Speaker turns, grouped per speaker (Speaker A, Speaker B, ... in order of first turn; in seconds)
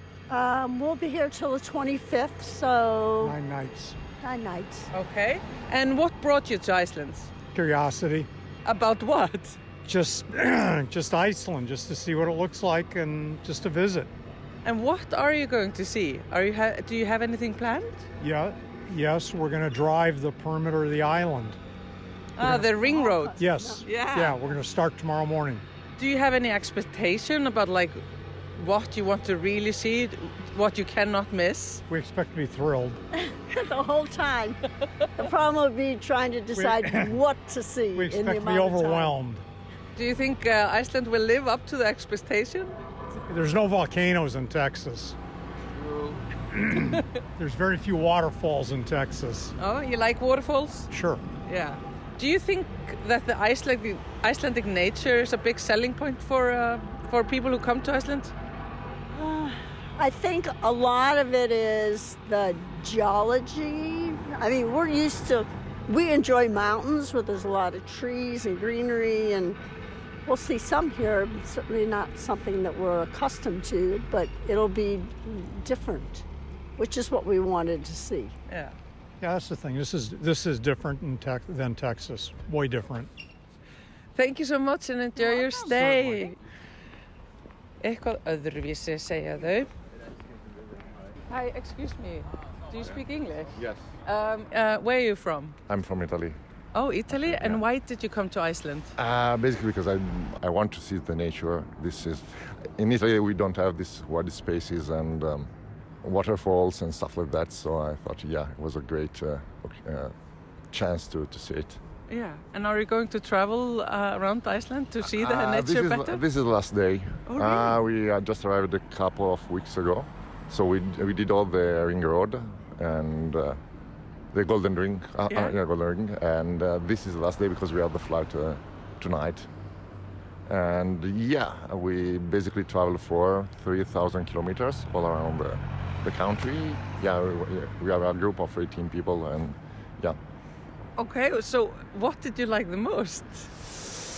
Speaker A: 0.3-3.4, 4.2-4.9, 22.4-23.8, 33.5-34.6, 35.2-39.2, 59.1-69.6, 70.2-76.2, 76.8-78.3
Speaker B: 3.2-4.0, 7.5-8.3, 9.8-14.1, 18.2-21.6, 22.4-22.7, 23.4-25.6, 31.9-33.0, 36.5-37.2, 37.9-39.4, 43.3-45.2, 46.5-49.5, 50.9-51.2, 79.2-83.1
Speaker C: 4.9-7.3, 8.6-9.6, 14.6-18.0, 22.4-24.4, 25.9-28.0, 28.6-31.8, 40.0-42.7, 49.6-50.9, 51.4-58.3, 78.5-78.7, 84.1-86.4, 87.8-89.7, 91.3-95.6, 96.7-98.9, 112.1-116.2, 117.3-117.8, 125.3-125.5, 140.9-143.5
Speaker D: 93.5-93.9, 95.7-96.4, 97.1-97.6, 99.0-105.5, 106.0-111.8, 115.0-123.6, 124.3-129.5, 130.5-140.2